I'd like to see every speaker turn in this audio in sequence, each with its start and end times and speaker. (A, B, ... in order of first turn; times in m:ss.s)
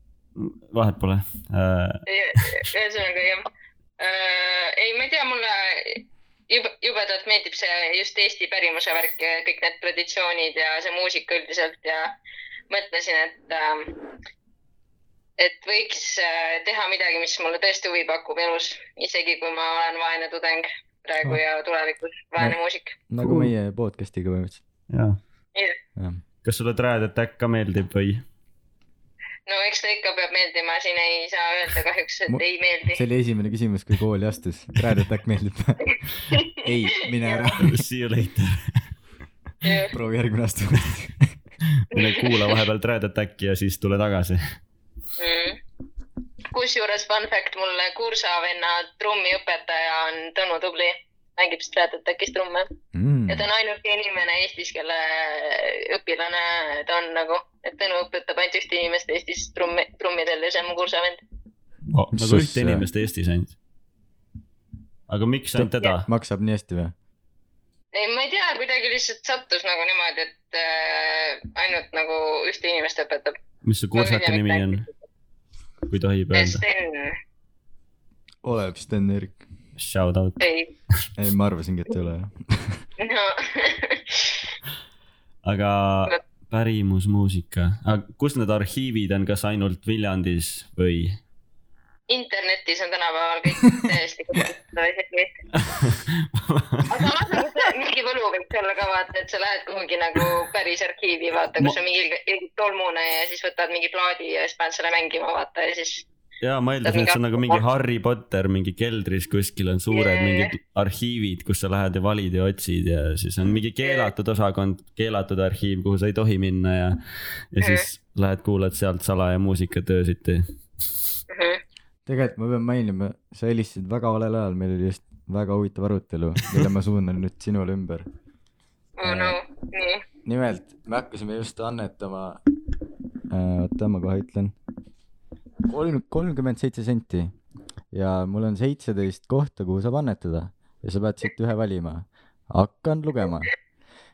0:00.4-0:02.5 A
0:02.1-0:03.4 B
0:04.0-0:12.1 B
0:12.7-0:13.9 B
0:15.4-0:23.0 B
0:23.1-0:24.6 C
0:23.2-0:23.5 A
0:24.9-0:25.2 A
0:26.0-0:26.2 C
0:26.4-0:28.2 A
0:29.4-0:33.0 B
0:32.3-0:37.8 C
0:37.6-0:38.8 A
0:39.6-0:39.9 B
0:39.9-0:41.3 C
0:41.8-0:44.4 A
0:41.9-0:42.3 B
0:45.2-0:45.6 B
0:46.5-0:52.7 B
0:52.9-0:53.5 C
0:53.3-1:01.2 B
1:01.9-1:03.5 A
1:02.1-1:02.8 C
1:05.1-1:06.1 A
1:05.5-1:06.9 C
1:07.9-1:13.3 B
1:13.6-1:14.9 A
1:14.0-1:14.8 B
1:15.9-1:16.6 A
1:16.3-1:17.1 B
1:18.4-1:19.4 C
1:19.8-1:20.4 A
1:20.4-1:20.7 B
1:21.2-1:22.8 C
1:23.0-1:24.4 B
1:25.4-1:31.2 A
1:32.1-1:35.3 B
1:35.6-1:37.4 A
1:36.9-1:46.0 B
1:46.4-1:57.0 A
1:46.8-1:47.6 B
1:49.9-1:50.5 B
1:53.8-1:54.1 B
1:57.5-2:00.4 A
2:01.3-2:01.6 B
2:02.1-2:08.1 C
2:09.0-2:10.0 B
2:09.0-2:09.4 C
2:10.2-2:12.4 C
2:13.3-2:14.5 C
2:15.7-2:17.3 C
2:17.9-2:23.5 C